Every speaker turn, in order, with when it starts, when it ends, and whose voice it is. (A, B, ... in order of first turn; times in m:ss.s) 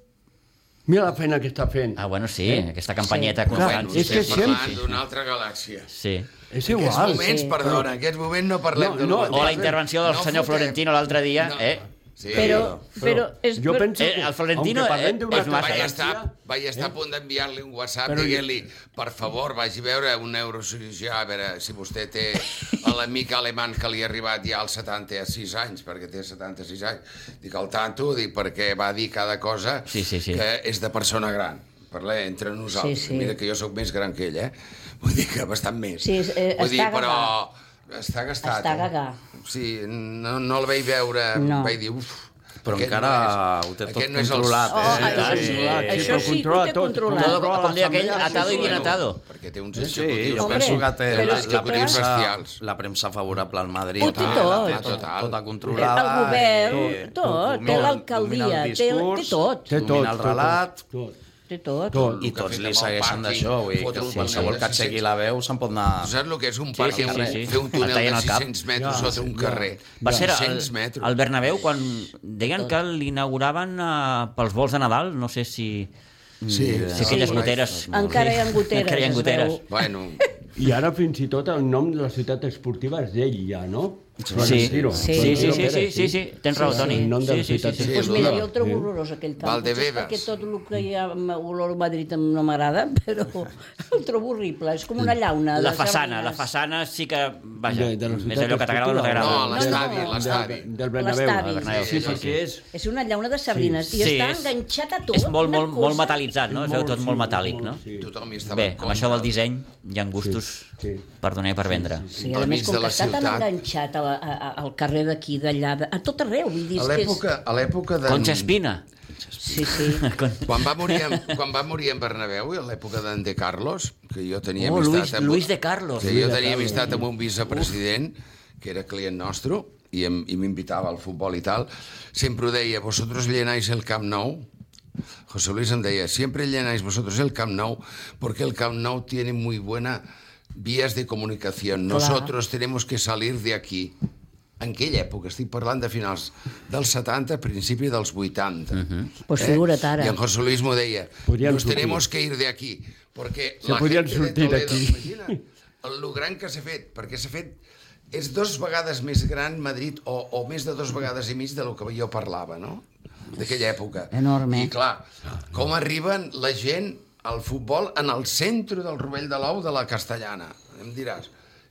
0:00.9-0:02.6 A
0:02.0-0:05.0 B
0:03.0-0:03.4 C
0:03.5-0:05.9 D
0:03.5-0:04.8 A
0:05.9-0:06.3 B
0:06.5-0:07.9 A
0:06.6-0:10.8 D
0:07.0-0:07.6 C
0:08.7-0:09.8 A
0:09.3-0:11.9 B
0:11.4-0:12.8 D
0:12.3-0:12.8 E
0:12.3-0:14.0 C
0:12.5-0:16.9 A
0:14.0-0:16.0 B
0:15.3-0:45.4 D
0:18.1-0:18.5 A
0:29.9-0:30.4 B
0:32.7-0:33.4 C
0:36.0-0:37.3 C
0:38.4-0:39.2 C
0:41.4-0:41.8 C
0:42.6-0:46.2 E
0:44.7-0:47.5 C
0:44.9-0:48.9 A
0:45.0-0:46.2 B
0:47.1-0:49.2 B
0:48.2-0:52.6 D
0:48.3-0:48.7 C
0:49.9-1:00.8 E
0:50.4-0:52.0 C
0:54.0-0:55.0 C
0:54.0-0:55.4 D
0:55.7-0:59.7 C
0:56.7-0:57.0 A
0:57.5-0:57.9 A
0:59.7-1:01.2 A
1:01.5-1:02.1 C
1:01.9-1:02.2 A
1:02.2-1:05.0 D
1:02.2-1:06.2 E
1:06.0-1:11.1 D
1:06.8-1:08.5 B
1:06.9-1:07.6 E
1:08.8-1:10.3 A
1:10.0-1:15.9 B
1:16.4-1:18.4 E
1:16.5-1:17.6 D
1:16.9-1:19.6 B
1:17.0-1:17.4 C
1:17.9-1:20.3 C
1:19.7-1:20.2 D
1:20.6-1:28.9 A
1:24.2-1:25.5 E
1:24.4-1:27.9 B
1:25.0-1:25.7 C
1:26.6-1:27.1 C
1:27.8-1:28.4 D
1:27.9-1:36.5 C
1:29.4-1:30.3 D
1:35.6-1:39.7 B
1:37.7-1:42.6 A
1:39.2-1:40.7 D
1:39.4-1:40.3 C
1:41.0-1:41.9 C
1:41.6-1:42.4 B
1:41.7-1:42.3 D
1:42.7-1:46.2 C
1:43.5-1:43.9 A
1:43.9-1:44.5 B
1:45.1-1:47.8 B
1:46.5-1:48.1 A
1:48.0-1:49.3 D
1:48.5-1:52.1 B
1:50.2-1:51.0 A
1:51.7-1:52.3 A
1:52.1-1:57.2 C
1:52.2-1:53.5 D
1:56.8-1:58.5 D
1:58.1-1:58.8 B
1:59.2-1:59.7 E
1:59.4-2:00.1 C
1:59.7-2:01.3 B
2:00.4-2:05.5 D
2:04.6-2:06.2 B
2:06.0-2:14.5 D
2:06.0-2:07.0 A
2:15.3-2:20.0 D
2:20.5-2:24.0 D
2:21.9-2:22.3 C
2:24.6-2:37.6 D
2:28.8-2:29.1 B
2:29.3-2:30.2 C
2:31.2-2:32.0 A
2:33.6-2:35.4 A
2:38.1-2:42.8 D
2:43.4-2:51.3 D
2:44.1-2:44.7 C